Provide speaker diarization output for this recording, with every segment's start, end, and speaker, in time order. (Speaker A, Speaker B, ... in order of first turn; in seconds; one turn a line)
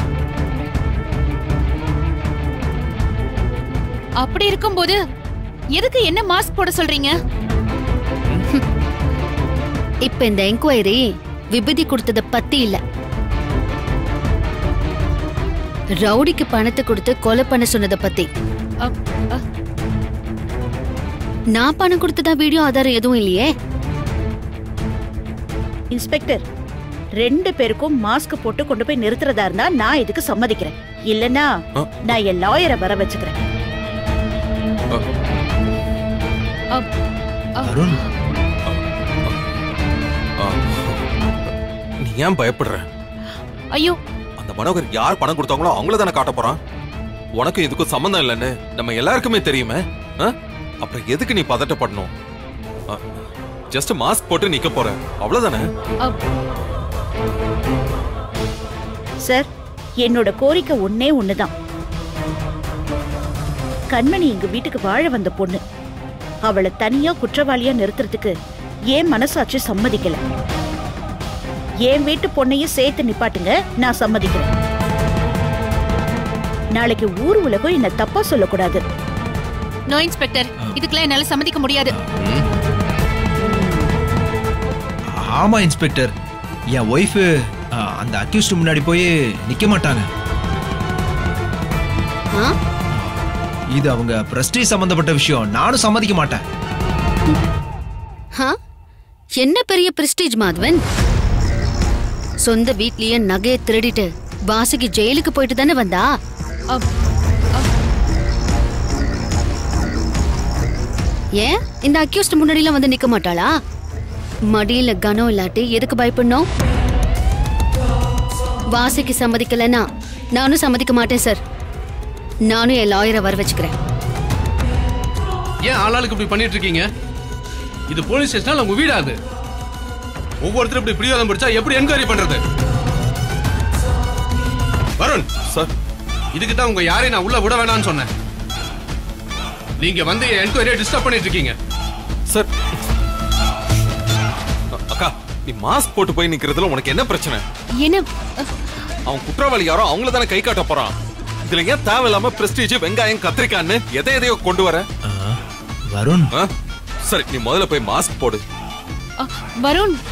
Speaker A: 4.2-5.0
Speaker A: 5.7-7.1
Speaker B: 10.1-11.0
Speaker B: 11.5-12.8
Speaker B: 16.0-18.3
Speaker A: 18.8-19.4
Speaker B: 21.5-23.5
Speaker C: 25.9-26.4
Speaker C: 27.2-31.5
Speaker C: 32.0-33.4
Speaker A: 37.6-38.1
Speaker D: 37.6-38.0
Speaker E: 38.7-39.4
Speaker E: 40.4-41.0
Speaker E: 42.0-42.8
Speaker E: 44.4-46.6
Speaker E: 47.4-52.1
Speaker E: 53.7-55.6
Speaker C: 60.0-61.5
Speaker C: 63.9-65.6
Speaker C: 66.5-68.3
Speaker C: 68.9-70.2
Speaker C: 71.9-74.5
Speaker C: 76.7-78.8
Speaker A: 79.9-81.9
Speaker C: 83.4-83.9
Speaker D: 85.2-86.1
Speaker D: 86.8-87.3
Speaker D: 88.0-90.1
Speaker D: 93.8-96.4
Speaker B: 99.4-100.8
Speaker B: 102.4-106.1
Speaker B: 111.4-113.5
Speaker B: 114.5-116.5
Speaker B: 118.7-119.8
Speaker B: 120.3-121.4
Speaker B: 122.5-123.7
Speaker F: 125.6-126.9
Speaker F: 127.9-129.2
Speaker F: 130.4-132.4
Speaker F: 135.0-135.3
Speaker F: 136.3-138.1
Speaker F: 139.8-141.6
Speaker E: 144.7-147.4
Speaker A: 147.8-148.5
Speaker E: 149.1-150.9
Speaker E: 151.5-154.8
Speaker D: 155.1-155.4
Speaker D: 155.9-156.3
Speaker E: 157.0-158.4
Speaker A: 159.2-160.0